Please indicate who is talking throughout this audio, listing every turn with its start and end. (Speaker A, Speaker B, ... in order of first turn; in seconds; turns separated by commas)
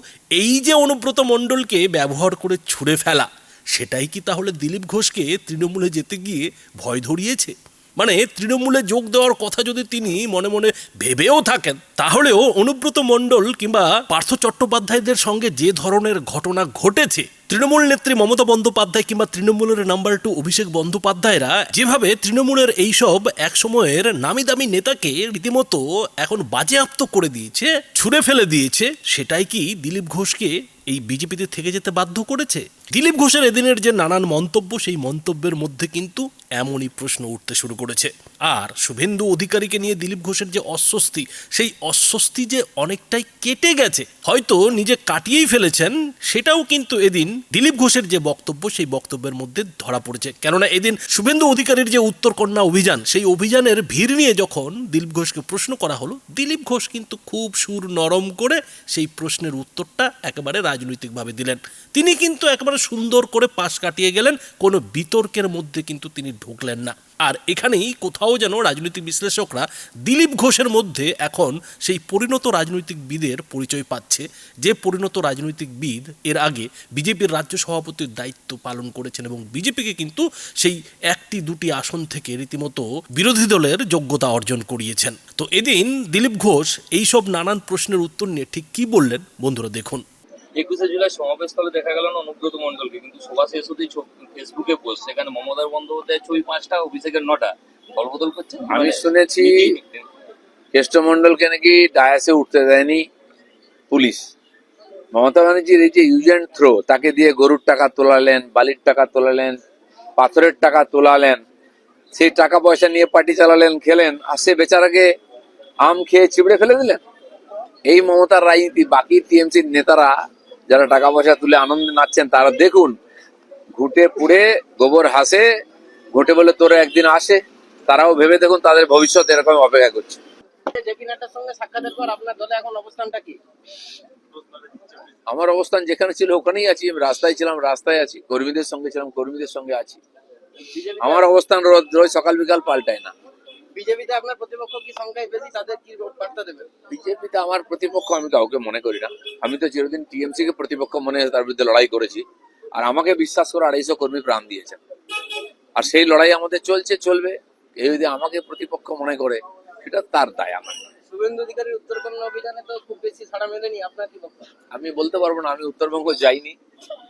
Speaker A: 0.4-90.0, Speaker B: 90.6-100.1, Speaker C: 98.7-99.6, Speaker C: 100.7-103.0, Speaker C: 103.9-104.3, Speaker C: 105.1-109.6, Speaker C: 110.2-111.4, Speaker C: 112.2-115.1, Speaker C: 115.8-117.0, Speaker C: 117.9-120.1, Speaker C: 120.7-123.0, Speaker C: 123.8-125.5, Speaker C: 126.1-130.2, Speaker D: 130.7-133.4, Speaker C: 135.3-140.0, Speaker D: 140.7-141.2, Speaker C: 141.0-143.1, Speaker D: 143.8-146.7, Speaker C: 146.9-152.2, Speaker C: 152.8-154.8, Speaker C: 155.8-160.9, Speaker D: 161.1-164.5, Speaker C: 164.7-166.6